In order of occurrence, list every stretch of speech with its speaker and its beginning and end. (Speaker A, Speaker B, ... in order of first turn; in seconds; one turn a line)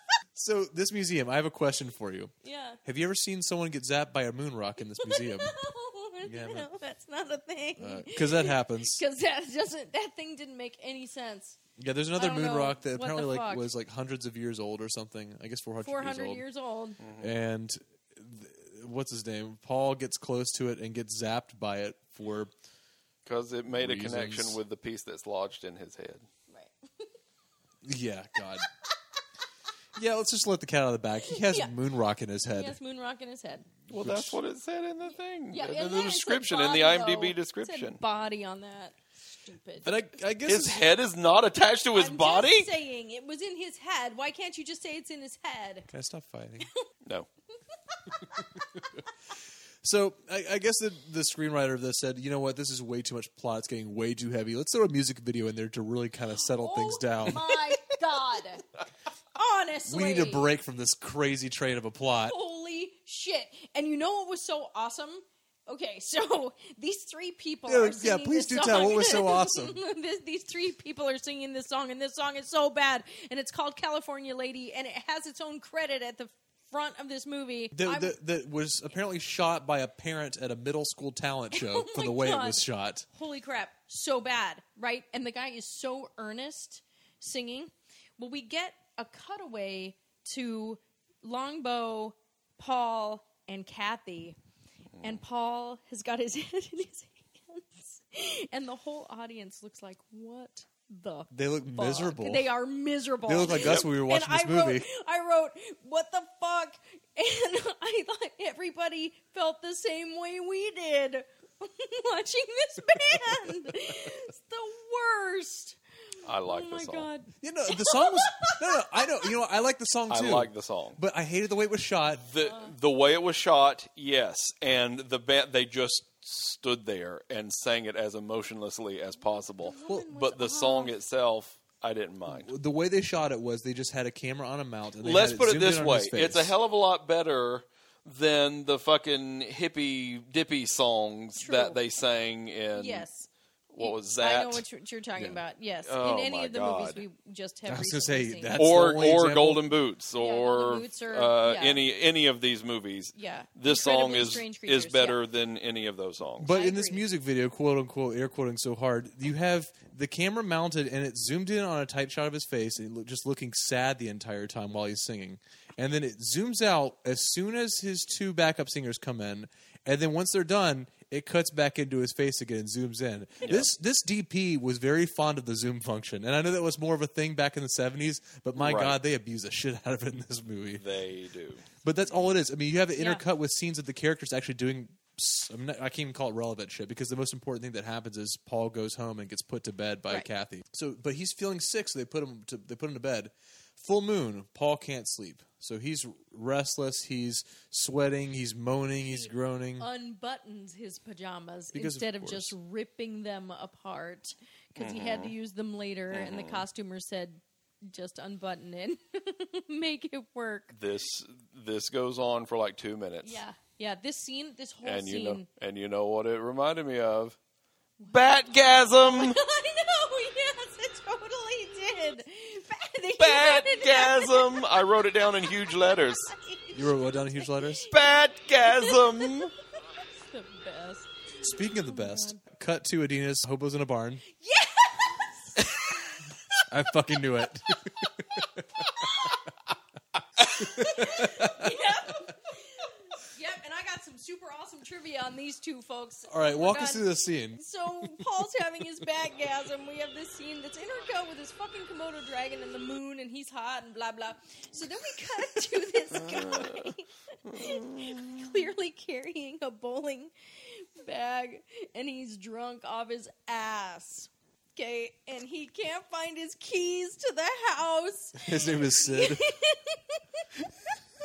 Speaker A: 0.4-2.3
Speaker B: 2.4-2.8
Speaker A: 2.8-5.5
Speaker B: 5.0-11.6
Speaker A: 6.2-6.7
Speaker A: 7.8-9.0
Speaker A: 11.8-16.4
Speaker B: 12.2-13.7
Speaker B: 15.8-17.0
Speaker C: 17.0-17.4
Speaker A: 17.2-22.5
Speaker C: 23.2-26.3
Speaker A: 23.7-24.6
Speaker B: 26.5-27.1
Speaker A: 27.9-28.7
Speaker A: 30.0-32.8
Speaker B: 31.3-31.7
Speaker B: 32.5-33.7
Speaker C: 33.9-38.0
Speaker A: 33.9-34.4
Speaker B: 35.5-39.9
Speaker A: 39.8-40.9
Speaker C: 40.5-42.8
Speaker B: 41.9-45.9
Speaker A: 45.9-46.7
Speaker B: 48.0-48.9
Speaker A: 49.8-57.8
Speaker B: 56.4-58.7
Speaker B: 59.4-60.5
Speaker A: 59.9-62.4
Speaker B: 62.2-78.2
Speaker A: 67.7-69.8
Speaker A: 77.7-83.1
Speaker B: 81.5-94.4
Speaker C: 95.0-95.2
Speaker B: 95.0-115.8
Speaker A: 101.3-102.5
Speaker A: 103.3-104.9
Speaker C: 103.5-103.9
Speaker C: 116.2-117.1
Speaker B: 116.5-119.2
Speaker A: 117.4-122.3
Speaker C: 120.1-121.0
Speaker C: 122.3-132.5
Speaker B: 122.4-122.7
Speaker B: 129.6-130.9
Speaker A: 132.3-136.5
Speaker C: 135.0-143.1
Speaker B: 141.4-141.8
Speaker B: 142.8-143.3
Speaker C: 143.7-144.6
Speaker B: 143.8-148.6
Speaker C: 145.9-147.1
Speaker A: 147.7-149.7
Speaker C: 148.6-156.6
Speaker B: 150.2-151.8
Speaker B: 153.2-155.2
Speaker A: 156.4-180.8
Speaker B: 156.5-157.1
Speaker C: 178.6-179.0
Speaker C: 180.7-181.6
Speaker A: 181.8-199.9
Speaker B: 199.0-210.7
Speaker A: 201.7-202.6
Speaker C: 204.8-205.3
Speaker C: 206.1-206.7
Speaker C: 210.7-213.4
Speaker B: 213.2-215.4
Speaker C: 214.8-217.4
Speaker C: 218.1-219.4
Speaker B: 219.0-228.1
Speaker C: 223.2-226.3
Speaker A: 226.7-227.9
Speaker C: 227.9-229.5
Speaker B: 228.6-229.5
Speaker B: 230.2-232.4
Speaker A: 231.4-234.2
Speaker B: 234.3-236.2
Speaker A: 236.7-239.2
Speaker B: 238.8-239.4
Speaker B: 240.5-242.4
Speaker A: 240.6-241.8
Speaker B: 243.2-270.4
Speaker A: 246.3-248.2
Speaker C: 256.1-256.9
Speaker C: 257.5-258.4
Speaker A: 268.4-269.4